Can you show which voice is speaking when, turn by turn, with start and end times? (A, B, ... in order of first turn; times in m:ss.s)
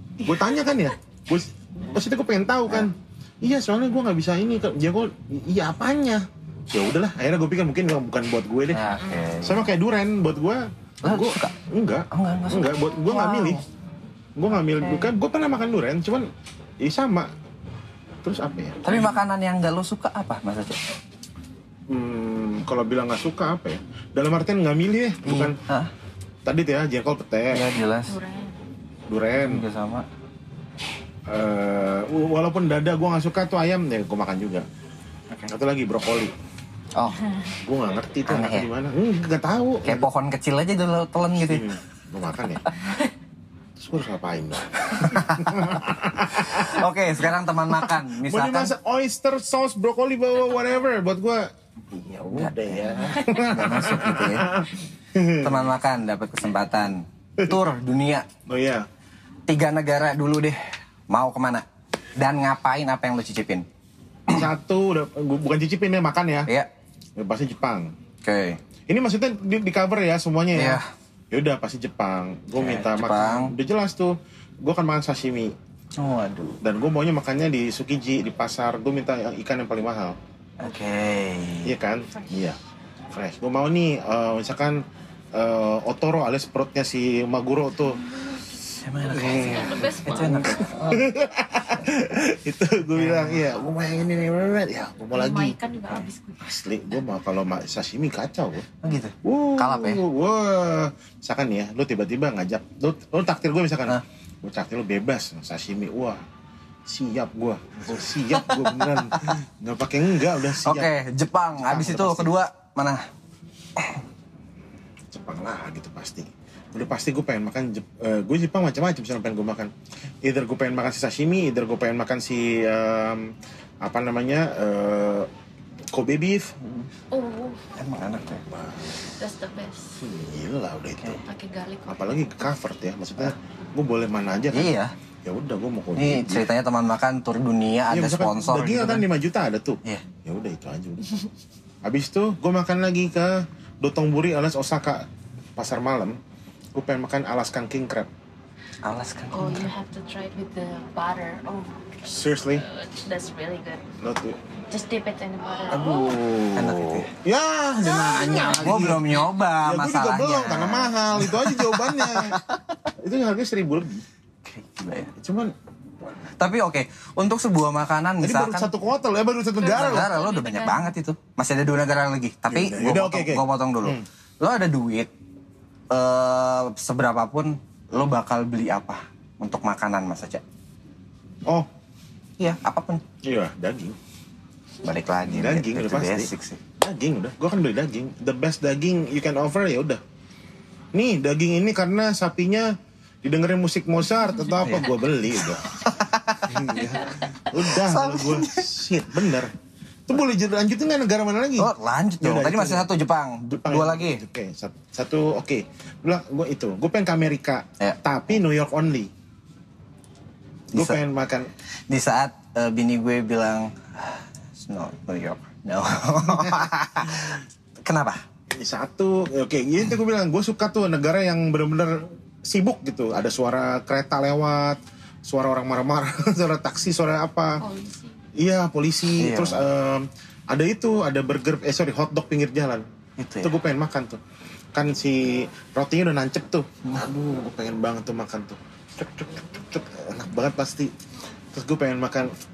0:00.2-0:08.8 A
0:08.7-0:09.7 B
0:09.0-0:09.2 C
0:09.4-0:13.6 A
0:11.0-0:11.6 B
0:12.1-0:13.6 B
0:14.4-0:16.3 A
0:14.6-0:15.1 B
0:16.8-0:17.3 A
0:18.2-0:18.9 A
0:18.8-0:20.8 B
0:21.9-0:25.6 A
0:25.2-0:25.9 B
0:26.4-0:27.6 A
0:27.5-0:28.2 B
0:28.1-0:28.6 C
0:29.1-0:29.6 A
0:29.4-0:30.1 B
0:31.3-0:34.7 A
0:35.5-0:36.3 A
0:37.0-0:37.2 B
0:37.6-0:40.1 A
0:38.3-0:38.7 B
0:39.8-0:41.7 B
0:41.4-0:42.7 A
0:43.8-0:46.8 A
0:45.0-0:45.8 B
0:46.4-0:48.7 B
0:47.7-0:55.7 A
0:52.3-0:54.5 B
0:55.4-0:58.3 B
0:58.5-0:58.9 A
0:59.5-1:01.6 B
1:02.2-1:03.7 B
1:04.3-1:06.5 A
1:07.2-1:07.9 A
1:08.2-1:08.6 B
1:08.9-1:10.8 A
1:10.5-1:10.9 B
1:11.3-1:15.6 A
1:12.6-1:13.5 B
1:16.0-1:16.6 B
1:16.6-1:20.2 A
1:20.6-1:21.8 B
1:21.6-1:22.6 A
1:23.1-1:28.1 A
1:28.7-1:31.1 B
1:29.1-1:30.7 C
1:29.1-1:29.8 A
1:30.6-1:35.6 A
1:32.9-1:33.5 B
1:35.1-1:36.6 C
1:36.4-1:38.7 A
1:38.8-1:40.0 B
1:39.2-1:46.2 A
1:46.9-1:50.9 A
1:48.2-1:49.3 B
1:50.6-1:53.1 B
1:51.6-1:52.4 A
1:53.8-1:54.0 B
1:55.1-1:59.7 A
2:00.2-2:05.3 A
2:05.9-2:06.6 A
2:06.6-2:06.9 B
2:07.1-2:07.7 C
2:07.8-2:08.4 B
2:08.3-2:09.1 A
2:09.0-2:10.0 C
2:10.0-2:11.2 A
2:11.2-2:12.2 C
2:11.9-2:14.7 A
2:14.5-2:14.9 B
2:15.2-2:16.5 A
2:16.0-2:19.1 B
2:17.9-2:21.2 A
2:21.8-2:25.1 A
2:25.6-2:26.2 A
2:26.8-2:28.1 A
2:28.8-2:29.7 B
2:29.3-2:33.8 C
2:32.0-2:32.6 A
2:34.0-2:34.4 A
2:34.7-2:36.2 C
2:35.7-2:37.1 B
2:35.7-2:42.4 A
2:37.8-2:38.8 C
2:38.4-2:42.8 B
2:43.0-2:44.0 A
2:44.4-2:45.1 B
2:45.2-2:45.5 A
2:46.4-2:48.7 B
2:48.2-2:50.1 A
2:49.6-2:50.9 C
2:49.6-2:55.1 B
2:52.5-2:54.0 A
2:55.9-3:00.4 B
3:02.4-3:03.0 B
3:03.2-3:04.0 A
3:04.8-3:06.6 B
3:05.3-3:10.0 A
3:10.9-3:19.5 A
3:14.4-3:18.8 B
3:20.1-3:22.9 A
3:21.6-3:24.2 B
3:23.5-3:29.1 A
3:30.7-3:31.0 B
3:30.7-3:31.5 A
3:31.9-3:38.2 B
3:36.4-3:37.4 A
3:38.6-3:47.6 A
3:47.6-3:48.2 C
3:48.4-3:52.9 A
3:49.2-3:49.7 B
3:53.2-3:53.6 B
3:53.4-3:54.2 A
3:54.8-4:00.9 A
4:01.5-4:02.3 A